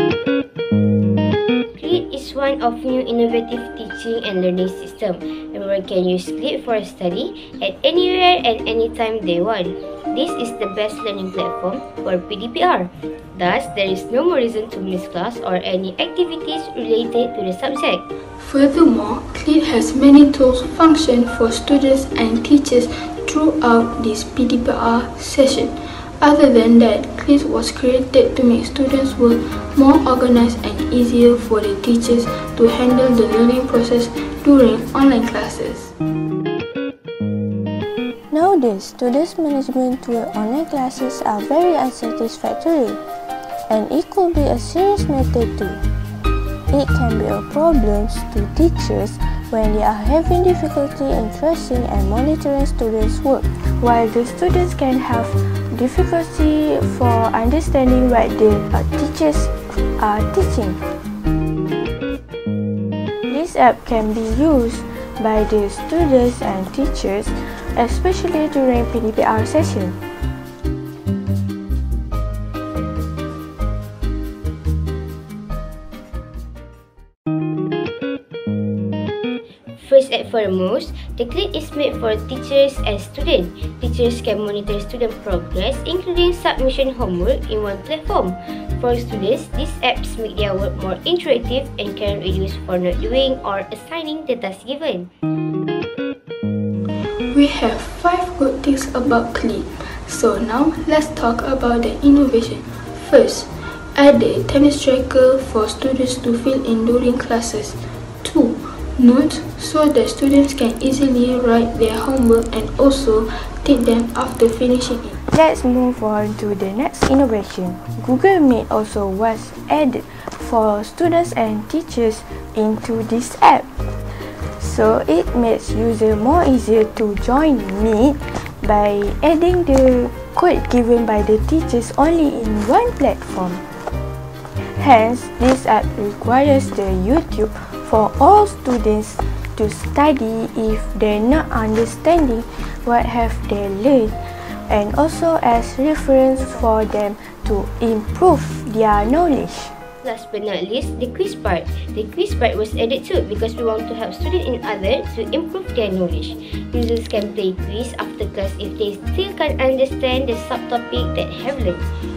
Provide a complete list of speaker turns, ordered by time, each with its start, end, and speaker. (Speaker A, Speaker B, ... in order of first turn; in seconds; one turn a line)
Speaker A: 1.8-18.0
Speaker B: 18.4-35.9
Speaker C: 38.3-43.0
Speaker C: 43.7-45.8
Speaker C: 46.7-60.8
Speaker C: 63.3-70.0
Speaker A: 79.8-95.1
Speaker B: 97.3-115.2
Speaker C: 115.2-133.6
Speaker C: 134.6-144.2
Speaker C: 144.7-149.7
Speaker A: 150.0-161.8